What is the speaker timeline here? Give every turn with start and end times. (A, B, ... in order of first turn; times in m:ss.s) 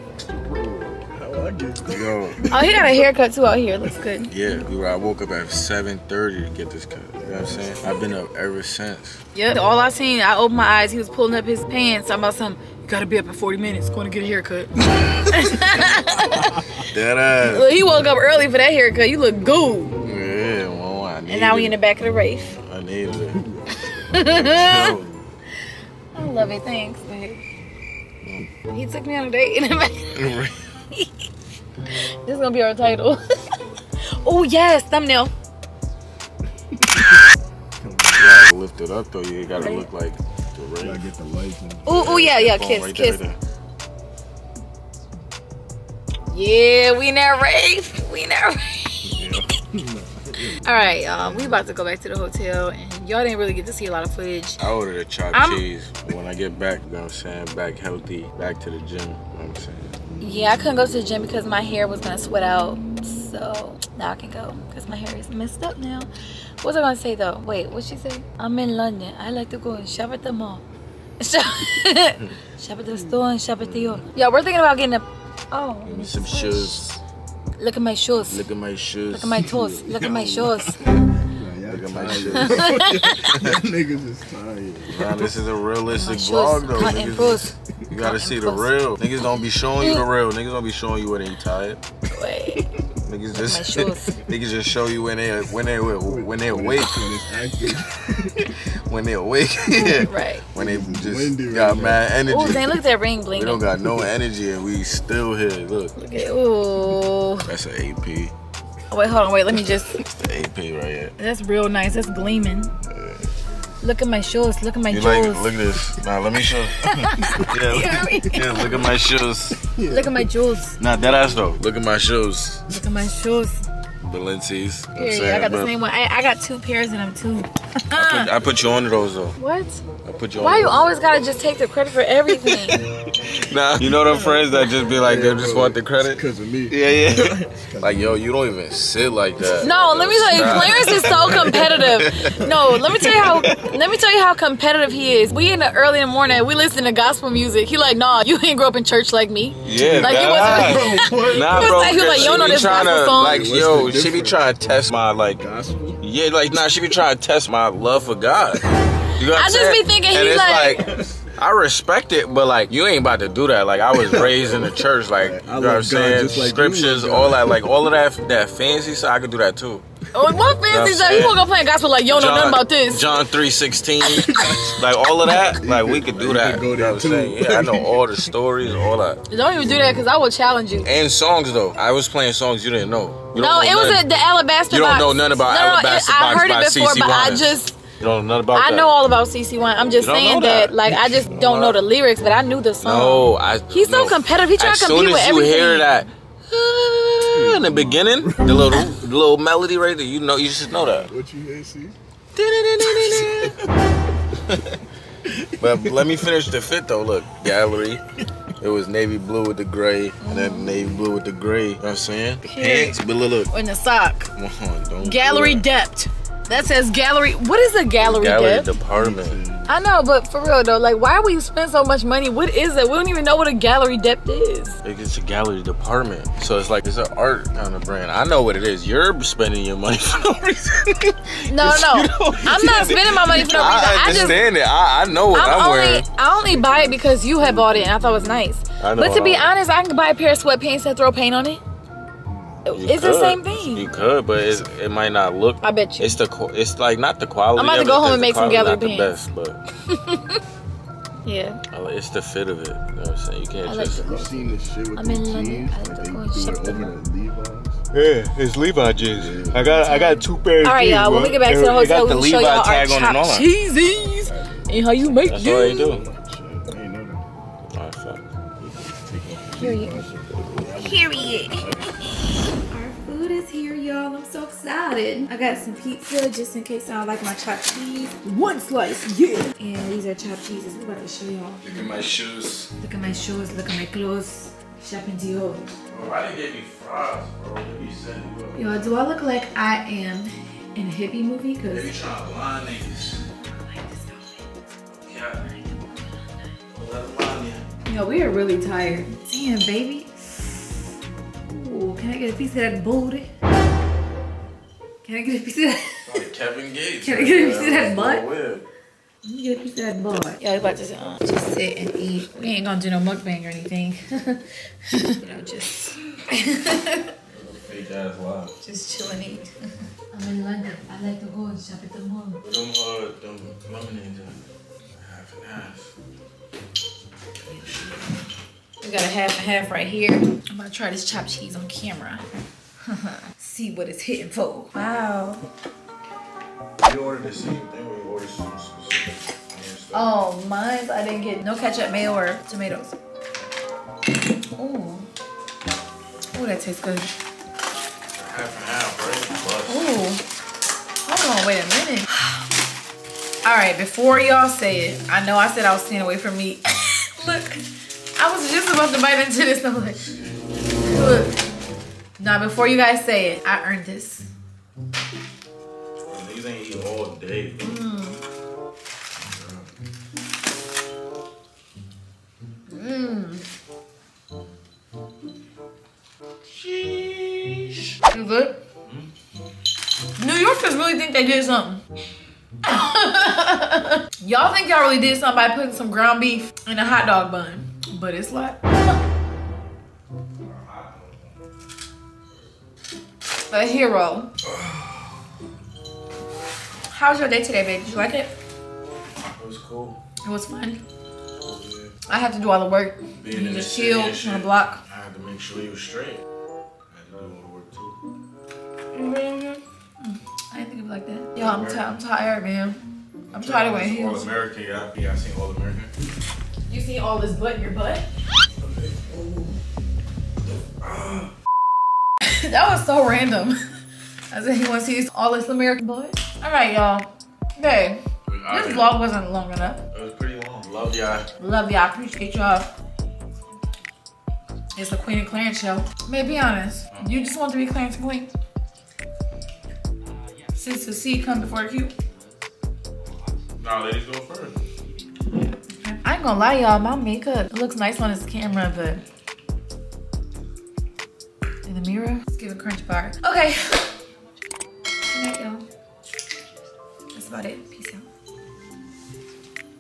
0:00.2-0:03.0 A
0:01.8-0:02.4 B
0:02.5-0:04.3 C
0:04.3-0:09.2 B
0:07.2-0:07.9 A
0:09.3-0:16.6 C
0:16.9-0:17.7 B
0:17.4-0:20.0 C
0:20.0-0:21.8 B
0:21.3-0:22.6 C
0:22.6-0:23.4 B
0:23.3-0:24.3 A
0:24.1-0:25.0 C
0:24.2-0:25.2 B
0:26.1-0:27.4 C
0:28.7-0:30.2 C
0:30.1-0:30.6 B
0:31.9-0:33.2 C
0:34.2-0:35.3 C
0:36.7-0:37.2 A
0:37.8-0:38.5 A
0:38.2-0:41.1 B
0:39.5-0:39.9 C
0:40.8-0:42.0 A
0:41.9-0:43.2 C
0:41.9-0:43.4 B
0:46.3-0:49.2 C
0:49.1-0:49.4 B
0:49.1-0:50.6 A
0:50.5-0:54.6 C
0:51.2-0:51.5 B
0:54.6-0:59.9 B
0:55.3-0:55.6 C
1:00.2-1:06.1 C
1:06.6-1:10.6 C
1:11.2-1:16.8 C
1:13.6-1:14.0 B
1:15.8-1:17.0 B
1:17.6-1:18.4 C
1:18.3-1:19.4 B
1:19.1-1:20.9 C
1:19.4-1:25.3 A
1:21.7-1:23.6 B
1:22.3-1:23.3 C
1:24.9-1:31.8 B
1:25.9-1:28.7 C
1:29.8-1:30.0 C
1:32.1-1:32.7 C
1:33.0-1:37.1 B
1:33.4-1:34.2 C
1:36.0-1:38.5 A
1:38.4-1:42.7 B
1:39.7-1:42.1 A
1:40.0-1:40.5 C
1:42.3-1:43.6 C
1:43.3-1:45.9 B
1:46.0-1:47.5 C
1:47.4-1:48.3 B
1:48.9-1:50.0 C
1:50.0-1:51.1 B
1:51.2-1:52.8 C
1:52.9-1:53.3 A
1:53.8-1:55.5 C
1:54.9-1:59.6 B
1:56.8-1:58.9 C
1:59.7-2:00.3 A
1:59.9-2:00.8 C
2:00.8-2:02.8 B
2:02.7-2:03.7 C
2:04.0-2:05.7 B
2:05.0-2:08.3 C
2:08.0-2:09.4 B
2:09.4-2:09.8 C
2:10.0-2:10.9 B
2:10.4-2:12.8 C
2:12.5-2:22.3 B
2:14.1-2:18.2 A
2:19.6-2:33.5 C
2:19.8-2:22.5 A
2:22.9-2:23.8 B
2:29.6-2:35.4 B
2:29.7-2:34.4 A
2:35.3-2:36.0 A
2:36.0-2:38.6 B
2:39.2-2:49.8 B
2:39.3-2:41.0 C
2:40.9-2:41.2 A
2:44.0-2:47.6 A
2:50.1-2:53.1 C
2:50.7-2:51.4 B
2:52.1-2:59.2 B
2:54.1-2:54.7 C
2:54.3-2:58.3 A
2:59.3-3:00.9 C
2:59.7-3:00.0 A
3:00.8-3:04.1 B
3:03.4-3:07.8 C
3:04.7-3:09.0 B
3:08.5-3:15.9 C
3:10.0-3:11.8 B
3:12.8-3:21.1 B
3:17.2-3:18.9 A
3:20.8-3:22.0 A
3:22.4-3:23.6 B
3:22.9-3:23.7 A
3:24.5-3:24.8 B
3:25.3-3:26.0 A
3:25.6-3:28.0 B
3:28.6-3:33.5 B
3:30.2-3:30.9 C
3:32.4-3:34.3 C
3:34.4-3:35.7 B
3:35.0-3:38.7 C
3:38.0-3:39.4 B
3:38.9-3:39.7 A
3:39.7-3:44.8 C
3:44.8-3:56.1 B
3:51.5-3:54.4 C
3:55.3-4:01.6 C
3:56.4-3:58.4 A
3:58.8-3:59.5 B
4:02.3-4:02.6 A
4:02.6-4:03.9 C
4:02.7-4:09.6 B
4:05.6-4:06.2 C
4:07.6-4:09.2 C
4:09.9-4:10.4 C
4:11.2-4:11.6 C
4:11.7-4:14.1 B
4:13.6-4:17.0 C
4:14.0-4:17.8 A
4:17.9-4:23.5 B
4:19.2-4:19.7 A
4:19.8-4:25.9 C
4:24.2-4:24.7 A
4:25.2-4:26.0 B
4:25.8-4:27.2 A
4:27.7-4:28.3 B
4:28.6-4:32.1 A
4:29.6-4:30.0 C
4:30.8-4:31.7 C
4:32.6-4:41.7 C
4:41.6-4:42.7 B
4:42.8-4:45.7 C
4:45.9-4:48.7 B
4:48.6-4:51.9 C
4:51.7-4:53.2 B
4:53.4-4:54.5 C
4:54.9-4:55.5 B
4:55.4-4:56.3 C
4:56.7-4:57.6 B
4:57.8-5:00.7 C
5:01.5-5:03.3 C
5:05.0-5:06.2 C
5:06.1-5:08.6 B
5:07.0-5:08.3 C
5:09.2-5:17.1 C
5:17.3-5:18.5 B
5:18.6-5:19.5 C
5:20.1-5:22.4 C
5:22.4-5:24.4 B
5:24.9-5:25.9 B
5:27.4-5:28.2 B
5:28.8-5:32.3 C
5:32.9-5:35.4 C
5:36.8-5:40.1 B
5:39.9-5:43.0 C
5:44.6-5:45.1 C
5:46.3-5:47.1 C
5:48.1-5:49.9 B
5:49.7-5:50.2 C
5:51.0-5:52.3 C
5:53.4-5:57.6 C
5:58.2-6:00.0 C
5:59.9-6:00.4 B
6:00.8-6:01.3 C
6:02.2-6:04.3 C
6:06.1-6:07.8 B
6:07.6-6:08.2 C
6:09.2-6:09.7 B
6:12.7-6:13.4 C
6:16.5-6:18.0 B
6:18.1-6:18.6 C
6:20.2-6:21.8 C
6:22.6-6:29.0 C
6:30.4-6:31.4 B
6:32.3-6:32.6 B
6:33.5-6:34.3 C
6:34.4-6:35.2 B
6:36.9-6:38.3 C
6:39.3-6:40.0 B
6:40.2-6:40.8 C
6:41.4-6:41.9 B
6:42.1-6:44.8 C
6:43.2-6:46.2 B
6:46.9-6:48.0 B
6:49.0-6:49.6 B
6:50.0-6:52.8 C
6:51.4-6:51.9 B
6:53.3-6:55.9 B
6:53.3-6:54.3 C
6:56.7-6:58.0 C
6:58.6-6:59.6 B
7:00.6-7:01.3 B
7:02.2-7:03.6 C
7:04.3-7:09.8 C
7:08.3-7:09.0 B
7:09.9-7:11.3 B
7:11.4-7:12.7 C
7:14.8-7:18.3 C
7:20.6-7:21.9 C
7:23.6-7:24.6 B
7:25.8-7:29.0 C
7:31.6-7:33.9 C
7:35.1-7:35.6 C
7:37.1-7:38.0 C